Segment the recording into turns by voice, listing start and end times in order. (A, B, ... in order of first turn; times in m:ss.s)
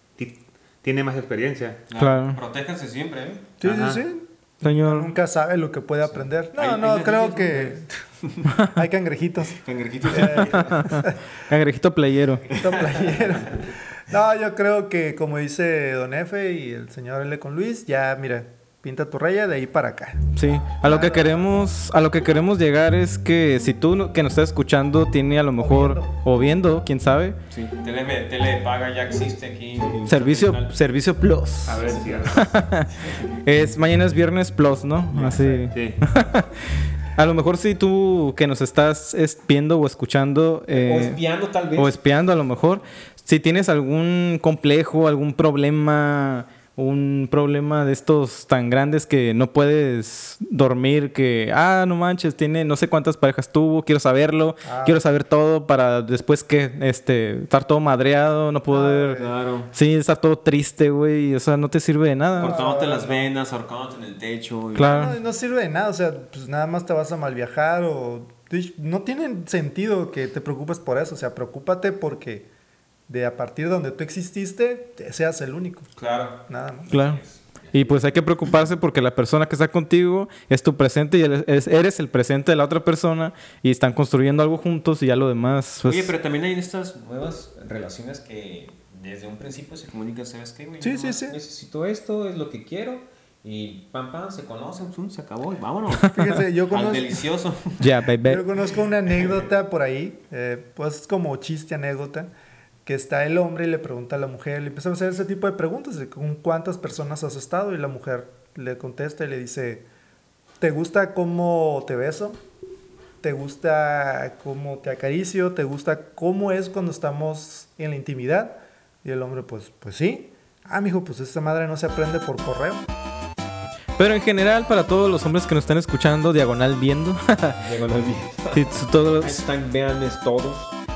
0:00.2-0:01.8 A
0:01.9-0:03.5 B
0:02.0-0:02.4 C
0:03.6-0:07.8 D
0:03.6-0:04.0 A
0:04.6-0:05.1 C
0:06.0-0:08.5 B
0:08.6-0:11.2 D
0:09.6-0:10.9 B
0:10.7-0:12.4 C
0:12.5-0:13.6 B
0:12.5-0:21.4 D
0:20.4-0:27.4 C
0:25.6-0:26.1 D
0:27.5-0:30.7 B
0:30.0-0:32.9 C
0:31.6-0:32.4 A
0:31.8-0:32.5 B
0:33.4-0:36.5 C
0:35.2-0:35.6 D
0:35.7-0:36.0 A
0:37.2-0:41.2 C
0:40.7-0:41.9 B
0:41.7-1:02.6 C
0:54.6-0:55.0 D
0:58.7-0:59.3 D
0:59.2-0:59.7 B
1:02.4-1:05.0 B
1:02.4-1:03.3 D
1:04.7-1:05.2 C
1:04.8-1:12.5 D
1:13.1-1:15.9 D
1:16.0-1:17.8 B
1:16.5-1:16.9 D
1:16.9-1:26.1 C
1:25.8-1:36.1 B
1:30.8-1:31.4 D
1:36.0-1:37.2 D
1:36.7-1:37.8 B
1:37.8-1:38.4 C
1:38.2-1:42.3 D
1:42.8-1:49.8 D
1:50.6-1:52.4 D
1:53.2-2:02.8 D
2:04.0-2:07.6 C
2:07.6-2:10.8 B
2:08.5-2:09.4 C